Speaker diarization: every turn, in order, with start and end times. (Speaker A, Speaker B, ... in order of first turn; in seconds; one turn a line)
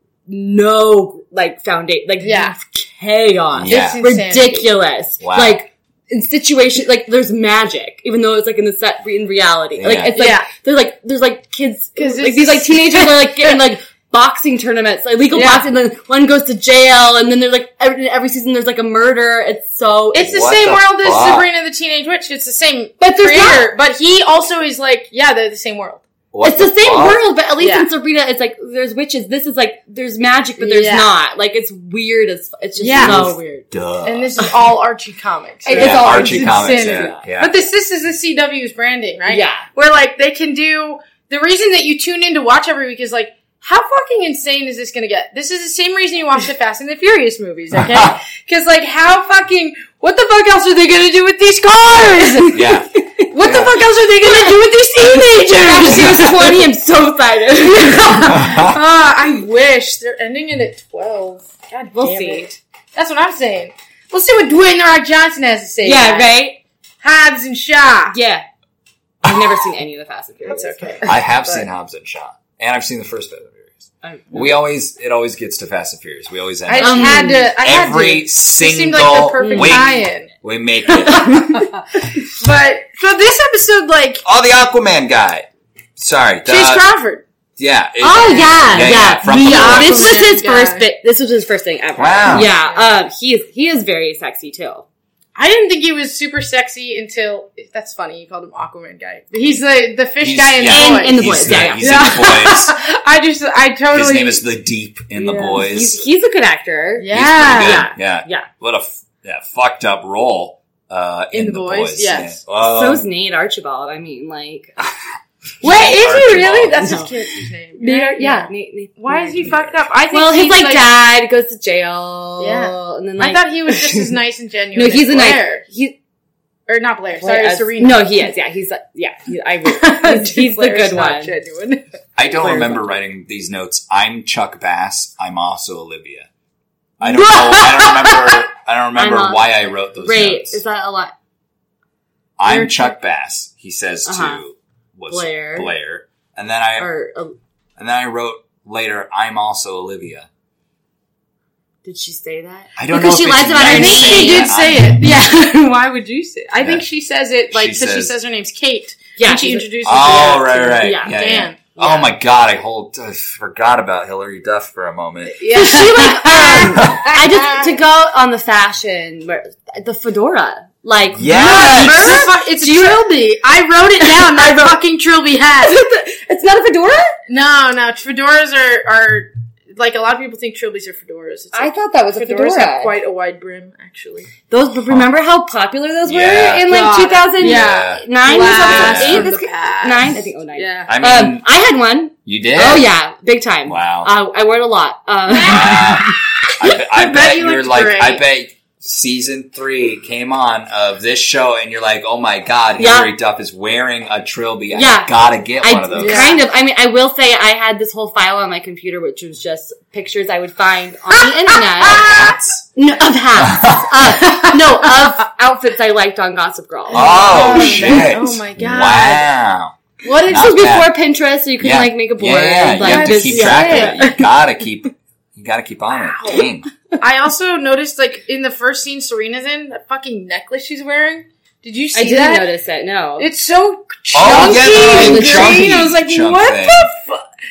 Speaker A: 0.3-20.3
Speaker B: 2.2-2.6
Speaker C: 3.5-4.0
Speaker B: 3.7-4.7
Speaker C: 5.2-5.6
Speaker C: 9.8-10.1
Speaker B: 10.1-10.5
Speaker B: 12.0-13.6
Speaker B: 15.3-15.7
Speaker B: 20.1-26.0
Speaker C: 20.2-21.5
Speaker A: 23.0-23.7
Speaker C: 26.3-27.2
Speaker A: 26.4-33.7
Speaker B: 27.6-27.9
Speaker B: 30.6-31.1
Speaker B: 32.8-33.3
Speaker C: 33.0-34.3
Speaker B: 34.0-56.7
Speaker A: 35.6-37.2
Speaker C: 35.7-37.5
Speaker A: 39.3-39.6
Speaker C: 47.8-48.1
Speaker C: 52.5-53.7
Speaker A: 53.0-53.3
Speaker A: 54.2-54.5
Speaker A: 55.1-58.5
Speaker B: 57.9-66.4
Speaker C: 58.3-58.8
Speaker A: 62.0-62.5
Speaker A: 65.8-66.6
Speaker B: 67.0-68.2
Speaker A: 68.1-68.5
Speaker A: 69.2-71.0
Speaker B: 70.5-71.7
Speaker C: 71.0-81.5
Speaker A: 74.0-74.5
Speaker B: 76.7-80.3
Speaker A: 76.8-77.5
Speaker A: 79.4-80.0
Speaker B: 80.9-84.2
Speaker A: 81.0-81.7
Speaker C: 84.2-85.5
Speaker C: 86.0-86.8
Speaker B: 86.5-87.2
Speaker C: 87.6-90.2
Speaker A: 88.0-94.8
Speaker B: 88.2-90.8
Speaker C: 92.0-92.5
Speaker B: 92.3-92.9
Speaker B: 95.4-104.4
Speaker C: 100.2-102.8
Speaker A: 100.7-102.0
Speaker C: 103.9-106.0
Speaker A: 105.2-108.5
Speaker B: 107.0-107.9
Speaker C: 107.1-113.1
Speaker B: 111.3-112.4
Speaker A: 112.6-114.8
Speaker C: 115.6-116.8
Speaker B: 115.6-120.9
Speaker A: 116.8-117.1
Speaker A: 117.8-119.5
Speaker C: 119.4-119.8
Speaker A: 120.1-124.1
Speaker B: 122.4-125.7
Speaker A: 124.8-126.0
Speaker B: 126.7-128.3
Speaker A: 127.2-131.3
Speaker B: 129.7-131.8
Speaker C: 132.2-136.3
Speaker A: 132.4-132.9
Speaker C: 137.0-140.6
Speaker B: 137.1-138.4
Speaker A: 139.0-141.1
Speaker C: 142.4-146.9
Speaker B: 142.5-142.8
Speaker A: 144.1-144.4
Speaker A: 145.1-145.7
Speaker A: 146.8-147.3
Speaker C: 147.8-150.3
Speaker A: 151.8-154.5
Speaker C: 152.8-155.0
Speaker B: 153.6-161.6
Speaker C: 156.6-156.8
Speaker C: 157.5-158.1
Speaker A: 159.2-159.7
Speaker C: 159.8-165.4
Speaker A: 160.8-161.2
Speaker A: 161.8-162.1
Speaker B: 165.3-167.7
Speaker A: 165.5-173.0
Speaker C: 166.8-167.1
Speaker C: 171.1-172.2
Speaker B: 171.3-175.8
Speaker A: 174.0-174.8
Speaker A: 175.7-177.2
Speaker B: 177.3-184.3
Speaker A: 181.5-182.9
Speaker A: 184.5-196.0
Speaker C: 186.1-186.7
Speaker B: 186.7-190.9
Speaker C: 187.4-188.1
Speaker C: 188.6-189.3
Speaker C: 190.9-191.5
Speaker C: 192.2-192.9
Speaker C: 193.7-194.1
Speaker B: 195.3-198.2
Speaker C: 195.4-206.3
Speaker A: 202.8-203.1
Speaker A: 204.7-218.0
Speaker B: 206.0-206.4
Speaker C: 211.8-212.6
Speaker B: 211.8-212.3
Speaker C: 213.4-214.2
Speaker B: 214.2-215.1
Speaker B: 216.9-219.3
Speaker C: 216.9-220.9
Speaker B: 220.0-220.6
Speaker A: 220.3-224.2
Speaker C: 221.6-226.7
Speaker B: 222.8-224.1
Speaker B: 225.9-226.4
Speaker B: 227.0-232.5
Speaker A: 231.9-233.3
Speaker B: 233.2-237.2
Speaker C: 234.1-236.9
Speaker A: 234.2-235.6